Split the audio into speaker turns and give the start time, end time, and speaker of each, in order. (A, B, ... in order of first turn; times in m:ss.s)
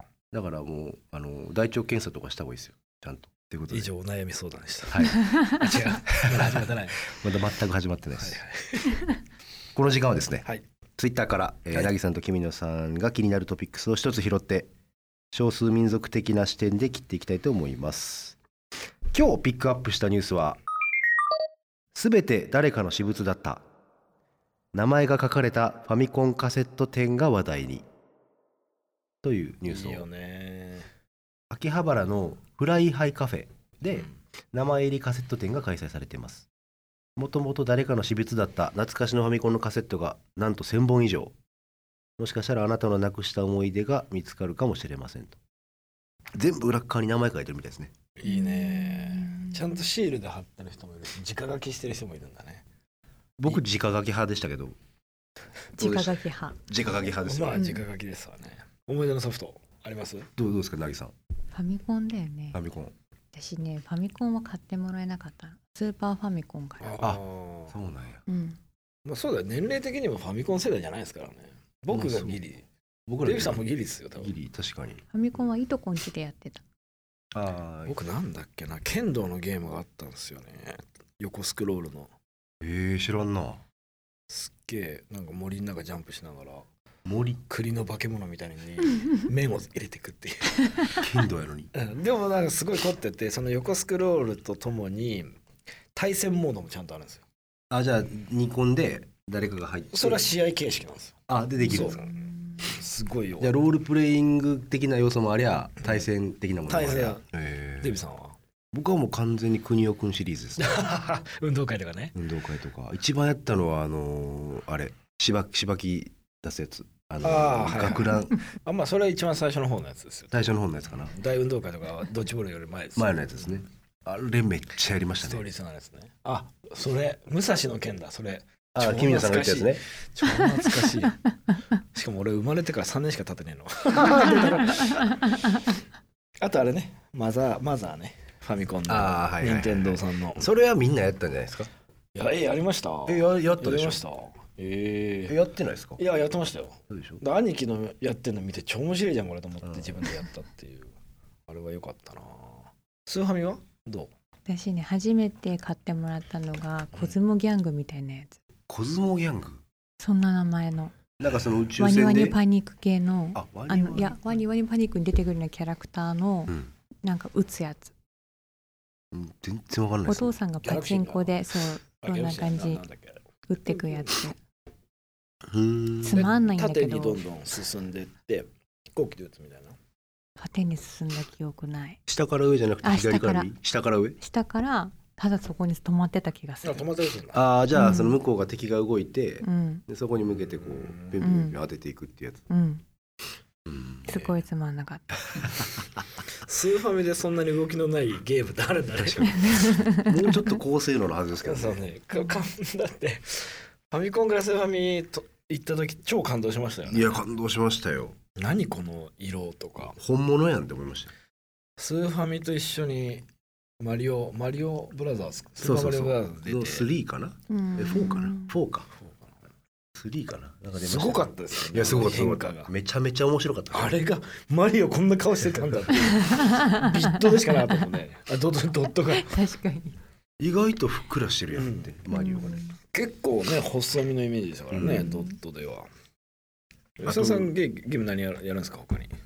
0:00.3-0:03.9 A
0:03.7-0:07.2 B
0:04.9-0:05.3 A
0:06.0-0:08.4 A
0:08.2-0:09.2 B
0:09.7-0:10.4 A
0:11.0-0:14.7 A
0:15.3-0:18.4 A
0:19.1-0:20.6 A
0:21.9-0:23.6 A
0:24.7-0:27.9 A
0:29.2-0:30.0 A
0:29.7-0:30.9 B
0:31.5-0:36.5 A
0:37.2-0:41.3 A
0:42.2-0:45.4 A
0:46.3-0:47.9 A
0:48.2-0:52.6 B
0:48.2-0:49.8 C
0:53.4-0:54.8 A
0:55.8-0:56.6 C
0:55.8-0:57.7 A
0:56.8-1:00.3 B
0:57.5-0:57.8 C
1:00.4-1:01.1 A
1:01.5-1:02.6 C
1:02.5-1:02.9 A
1:03.3-1:06.9 C
1:06.8-1:07.7 B
1:07.0-1:08.2 A
1:08.3-1:08.6 C
1:09.0-1:12.6 B
1:11.9-1:12.4 A
1:13.1-1:15.0 A
1:13.2-1:14.3 B
1:15.1-1:16.6 C
1:17.3-1:17.9 A
1:17.8-1:22.1 B
1:22.6-1:23.6 A
1:24.3-1:26.6 B
1:27.0-1:27.4 A
1:27.5-1:30.9 B
1:30.9-1:31.7 A
1:31.7-1:35.4 B
1:35.9-1:37.2 B
1:37.7-1:40.3 A
1:39.9-1:43.5 B
1:41.3-1:42.0 A
1:41.7-1:42.7 C
1:43.4-1:48.0 A
1:45.8-1:46.1 B
1:46.7-1:47.2 B
1:47.8-1:48.4 B
1:48.7-1:50.6 A
1:50.6-1:52.1 B
1:52.1-1:58.4 A
1:57.2-2:03.6 B
2:00.3-2:01.1 A
2:03.0-2:05.4 A
2:05.2-2:11.2 B
2:08.7-2:09.8 A
2:11.9-2:15.7 B
2:16.4-2:20.5 B
2:18.9-2:21.7 A
2:22.1-2:25.4 B
2:23.1-2:24.0 A
2:25.3-2:26.0 A
2:26.0-2:30.9 B
2:26.9-2:27.2 A
2:29.6-2:30.0 A
2:31.5-2:34.1 B
2:34.4-2:38.4 C
2:38.7-2:39.6 A
2:40.0-2:40.9 C
2:41.2-2:42.4 A
2:41.8-2:47.9 C
2:43.3-2:44.2 A
2:49.1-2:50.3 A
2:50.0-2:52.8 C
2:50.6-2:54.1 B
2:53.4-2:54.4 C
2:55.4-2:56.2 A
2:56.0-2:57.2 C
2:56.1-2:59.8 B
3:00.4-3:02.0 C
3:02.1-3:04.2 A
3:02.8-3:03.5 C
3:04.2-3:06.9 C
3:06.6-3:07.4 B
3:07.3-3:12.4 A
3:07.7-3:08.2 C
3:09.4-3:09.8 C
3:10.5-3:11.2 B
3:11.2-3:11.6 C
3:12.5-3:12.8 C
3:13.6-3:14.0 A
3:14.0-3:15.4 C
3:14.1-3:14.4 B
3:16.4-3:19.8 B
3:19.0-3:21.8 A
3:19.3-3:20.5 C
3:21.4-3:27.2 B
3:26.9-3:28.2 A
3:28.4-3:30.0 B
3:30.0-3:31.1 A
3:31.8-3:33.2 B
3:33.8-3:36.9 B
3:35.6-3:38.9 A
3:37.5-3:38.6 C
3:38.9-3:39.4 B
3:39.9-3:44.0 A
3:40.8-3:42.7 B
3:43.7-3:49.3 B
3:46.3-3:47.7 C
3:49.1-3:50.0 C
3:50.4-3:52.6 A
3:51.5-3:51.9 B
3:52.1-3:52.8 C
3:52.9-3:55.9 B
3:54.7-3:55.0 A
3:54.8-3:55.3 C
3:57.0-3:59.1 B
3:57.0-3:57.5 A